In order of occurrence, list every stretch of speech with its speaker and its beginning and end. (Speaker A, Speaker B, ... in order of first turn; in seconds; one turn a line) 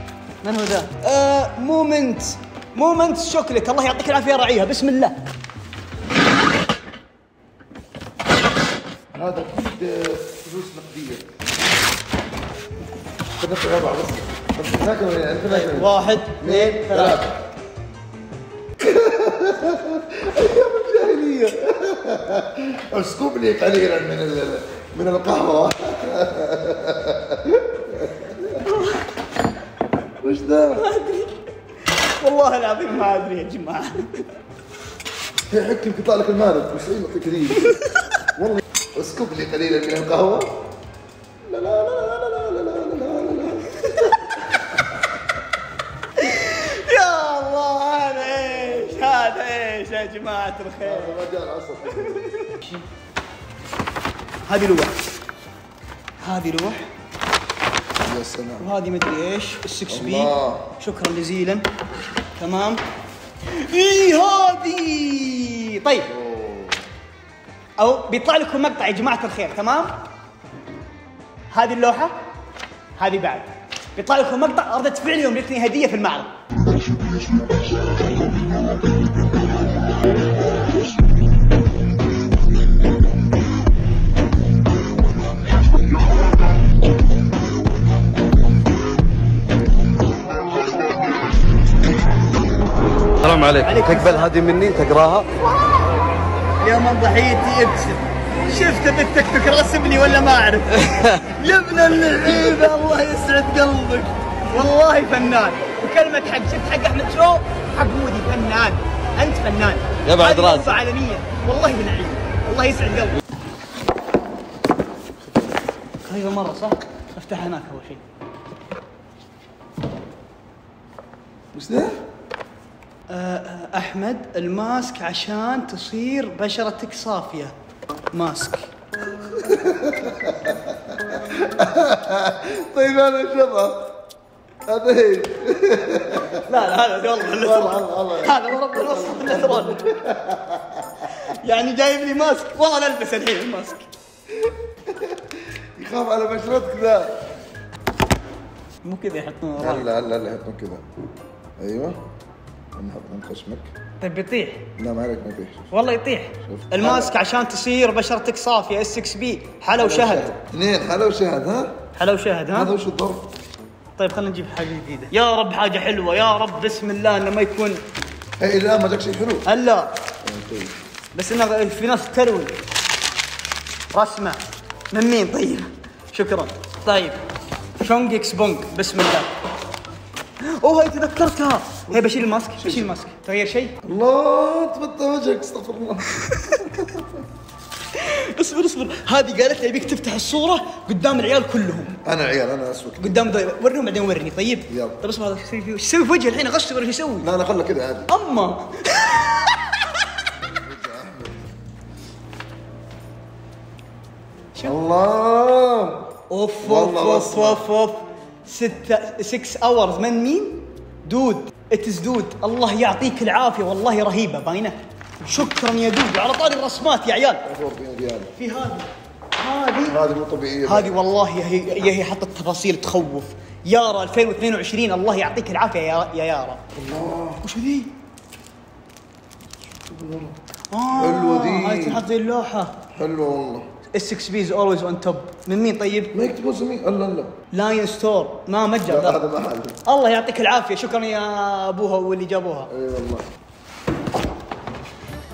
Speaker A: 0.4-5.2
Speaker B: 9.1-11.3
Speaker B: 13.4-17.4
Speaker A: 15.5-17.2
Speaker B: 18.8-28.6
Speaker A: 28.6-29.0
Speaker B: 30.2-30.9
Speaker A: 30.8-31.4
Speaker A: 32.2-34.3
Speaker B: 35.5-37.8
Speaker A: 37.6-38.1
Speaker B: 38.4-40.7
Speaker B: 41.5-43.8
Speaker A: 43.8-44.1
Speaker A: 46.2-51.2
Speaker B: 48.7-49.0
Speaker B: 50.8-52.3
Speaker A: 51.9-52.8
Speaker A: 54.5-55.0
Speaker A: 56.2-56.9
Speaker B: 58.0-58.7
Speaker A: 58.6-61.6
Speaker B: 59.9-60.7
Speaker A: 62.4-62.8
Speaker A: 63.5-66.1
Speaker B: 66.1-66.8
Speaker A: 67.8-69.9
Speaker A: 71.5-72.2
Speaker A: 73.0-76.3
Speaker C: 93.2-95.3
Speaker A: 93.6-94.3
Speaker A: 96.6-113.2
Speaker C: 110.1-110.8
Speaker A: 116.1-118.0
Speaker B: 121.5-122.0
Speaker A: 123.1-127.5
Speaker A: 128.1-128.7
Speaker B: 129.3-133.9
Speaker B: 134.7-136.5
Speaker A: 136.5-139.8
Speaker B: 137.2-141.1
Speaker A: 141.2-143.9
Speaker B: 144.3-147.2
Speaker A: 148.8-149.9
Speaker B: 149.6-150.8
Speaker B: 151.6-152.0
Speaker B: 152.8-153.7
Speaker A: 154.0-154.7
Speaker B: 154.8-155.7
Speaker A: 155.7-160.3
Speaker B: 156.4-157.1
Speaker B: 159.8-161.8
Speaker A: 162.0-162.8
Speaker B: 162.5-163.3
Speaker A: 164.0-167.8
Speaker B: 168.4-169.5
Speaker A: 169.5-169.9
Speaker B: 170.2-170.8
Speaker A: 171.2-172.5
Speaker A: 173.9-174.4
Speaker A: 174.9-177.2
Speaker A: 177.8-179.3
Speaker A: 180.4-183.8
Speaker B: 181.9-182.9
Speaker B: 183.8-187.2
Speaker A: 186.2-186.8
Speaker A: 187.9-192.0
Speaker B: 192.0-193.3
Speaker A: 193.0-197.3
Speaker B: 194.7-195.0
Speaker B: 197.2-198.1
Speaker A: 198.1-200.0
Speaker B: 200.4-201.5
Speaker B: 204.7-206.1
Speaker A: 206.3-217.4
Speaker B: 206.6-207.6
Speaker B: 217.4-218.3
Speaker A: 218.4-220.0
Speaker B: 219.8-221.0
Speaker A: 220.7-226.6
Speaker B: 226.7-227.4
Speaker A: 227.4-227.9
Speaker B: 229.8-230.4
Speaker A: 230.7-232.8
Speaker B: 230.9-232.0
Speaker B: 232.9-233.7
Speaker A: 233.9-236.1
Speaker B: 236.1-237.3
Speaker A: 237.5-239.2
Speaker B: 238.9-239.8
Speaker A: 239.8-242.7
Speaker B: 242.7-243.3